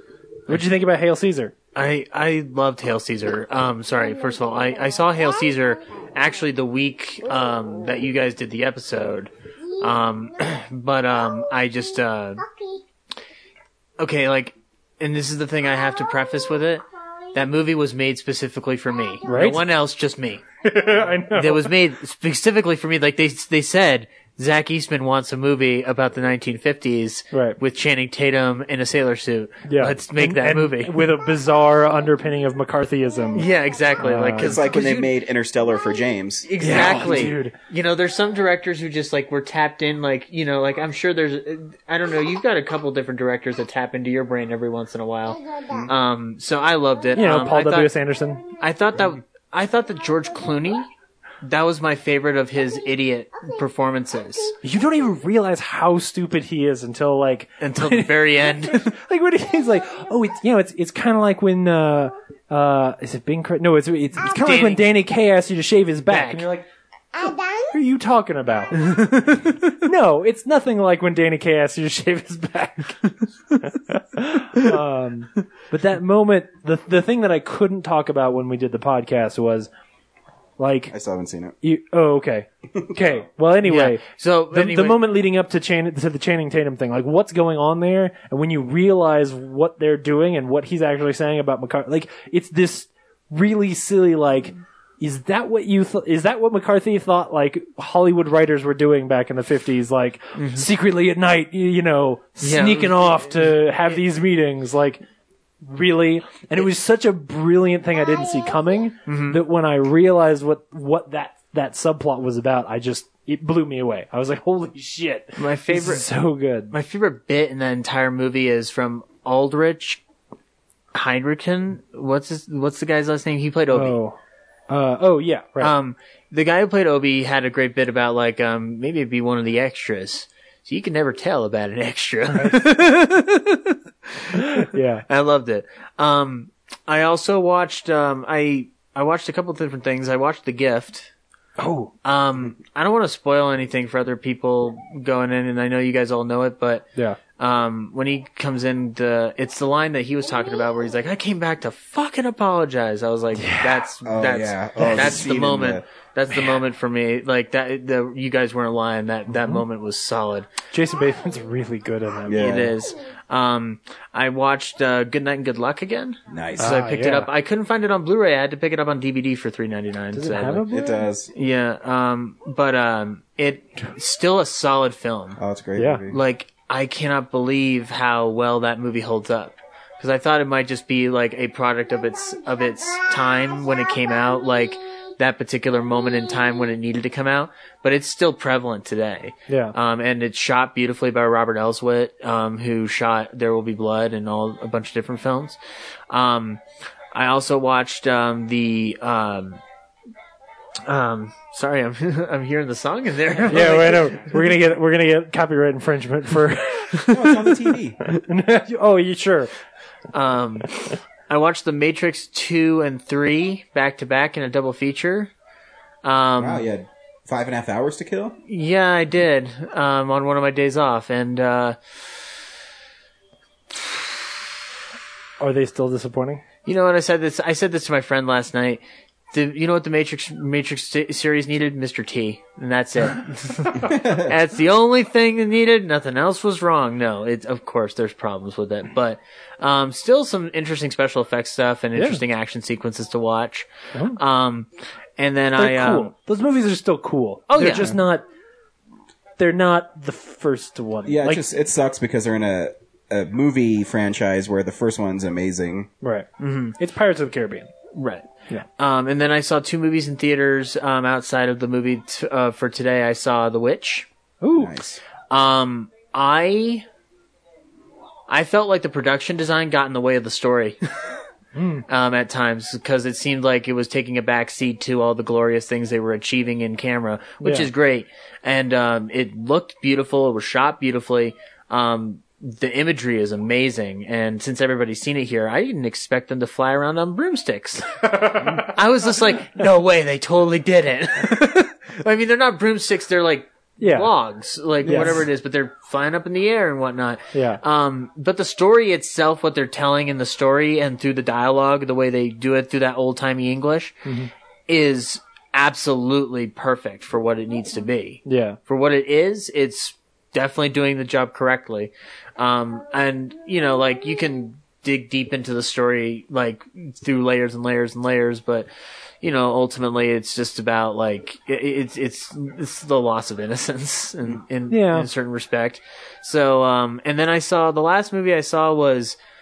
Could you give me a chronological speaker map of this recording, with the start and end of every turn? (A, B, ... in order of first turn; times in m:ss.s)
0:00.5-0:01.5 A
0:01.8-0:12.4 B
0:14.0-0:20.4 B
0:19.2-0:19.6 A
0:20.6-0:21.7 A
0:21.4-0:31.2 B
0:27.3-0:27.6 A
0:29.7-0:33.5 A
0:33.4-0:35.1 B
0:34.0-0:34.6 A
0:34.4-0:37.0 C
0:36.5-0:47.9 B
0:36.6-0:37.6 A
0:47.2-0:48.4 A
0:48.6-0:50.9 B
0:51.4-0:54.6 B
0:54.6-1:06.6 A
0:57.6-0:58.9 B
1:04.2-1:04.9 B
1:06.1-1:06.5 B
1:07.7-1:13.0 A
1:08.9-1:09.4 B
1:13.6-1:19.7 A
1:20.6-1:20.9 A
1:20.9-1:21.6 C
1:21.6-1:45.0 A
1:22.7-1:23.2 C
1:23.6-1:25.1 B
1:40.4-1:40.7 B
1:42.4-1:44.0 B
1:45.6-1:56.7 A
1:49.1-1:49.4 B
1:55.4-1:56.1 B
1:56.7-2:00.0 B
2:00.9-2:04.0 B
2:03.7-2:04.2 A
2:04.7-2:05.7 A
2:05.6-2:21.1 B
2:12.3-2:12.7 A
2:14.4-2:15.0 A
2:21.6-2:21.9 A
2:22.0-2:26.9 B
2:27.4-2:40.5 B
2:33.4-2:33.8 A
2:34.0-2:35.8 C
2:36.3-2:36.6 A
2:39.3-2:39.6 A
2:40.7-2:42.6 A
2:42.3-2:42.7 C
2:42.4-2:50.6 B
2:46.3-2:46.8 C
2:46.6-2:47.3 A
2:50.1-2:51.0 A
2:50.7-2:51.3 C
2:51.3-2:55.4 B
2:55.4-2:56.2 C
2:55.8-2:56.0 A
2:56.1-3:15.6 B
3:09.5-3:09.8 A
3:16.1-3:16.6 B
3:17.1-3:19.6 B
3:20.8-3:24.5 B
3:23.5-3:29.5 A
3:27.1-3:28.0 C
3:30.1-3:35.3 B
3:36.0-3:36.7 B
3:36.4-3:38.4 C
3:38.5-3:41.8 B
3:45.4-3:46.4 A
3:46.7-4:06.1 B
3:53.9-3:54.3 C
4:02.0-4:02.2 A
4:05.6-4:08.3 A
4:07.5-4:08.0 B
4:09.4-4:11.4 A
4:11.0-4:15.9 C
4:16.0-4:16.3 A
4:16.4-4:16.8 B
4:16.8-4:17.7 A
4:17.9-4:24.1 B
4:24.4-4:24.7 A
4:24.6-4:25.0 C
4:25.3-4:26.8 B
4:28.3-4:30.8 B
4:31.6-4:31.8 A
4:31.9-5:04.0 B
4:37.4-4:37.7 A
4:48.2-4:48.7 A
4:53.8-4:54.1 A
4:54.8-4:55.3 A
4:57.3-4:57.6 A
5:04.7-5:18.7 B
5:08.3-5:08.6 A
5:19.2-5:29.2 B
5:24.7-5:25.1 A